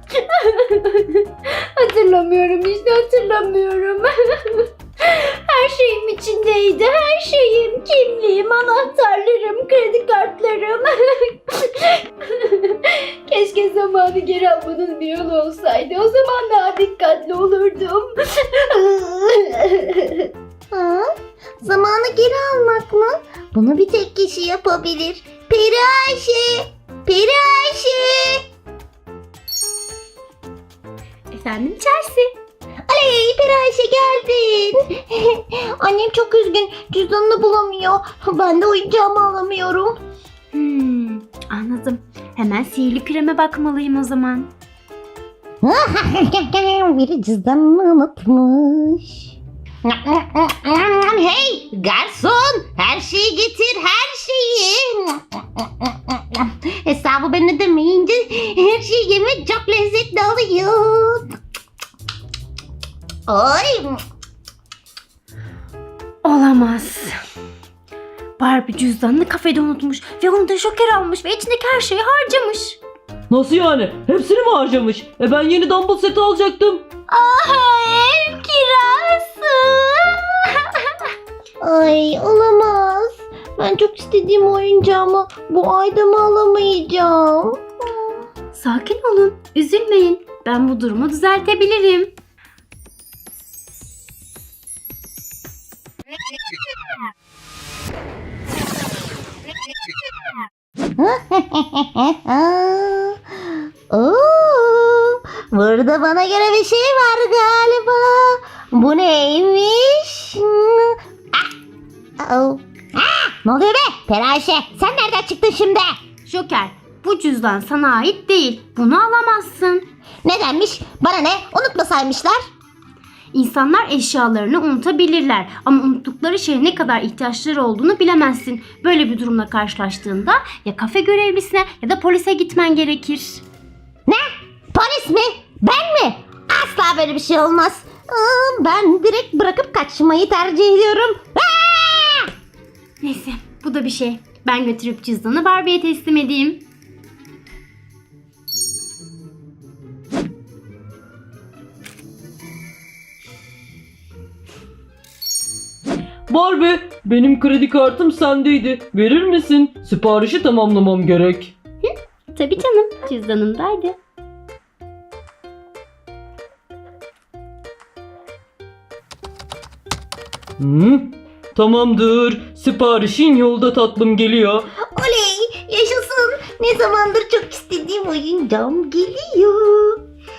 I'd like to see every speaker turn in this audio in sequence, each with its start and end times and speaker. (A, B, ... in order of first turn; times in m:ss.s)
0:00.2-0:20.3 A
0:20.7-0:21.1 B
0:21.6-0:28.4 B
0:31.3-0:32.3 A
0:32.9-0:40.0 B
0:40.5-0:44.5 A
0:45.6-1:01.3 B
1:03.3-1:04.0 B
1:06.2-1:07.2 A
1:08.4-1:12.8 A
1:13.3-1:16.8 C
1:17.1-1:20.9 A
1:21.6-1:28.1 B
1:28.5-1:32.1 A
1:41.0-1:51.5 B
1:52.2-1:55.9 B
1:56.2-1:59.8 A
2:00.2-2:02.4 B
2:03.3-2:13.4 A
2:14.1-2:22.3 B
2:23.0-2:26.6 A
2:36.3-2:41.5 C
2:41.8-2:44.0 A
2:50.6-2:54.6 C
2:54.9-3:00.0 B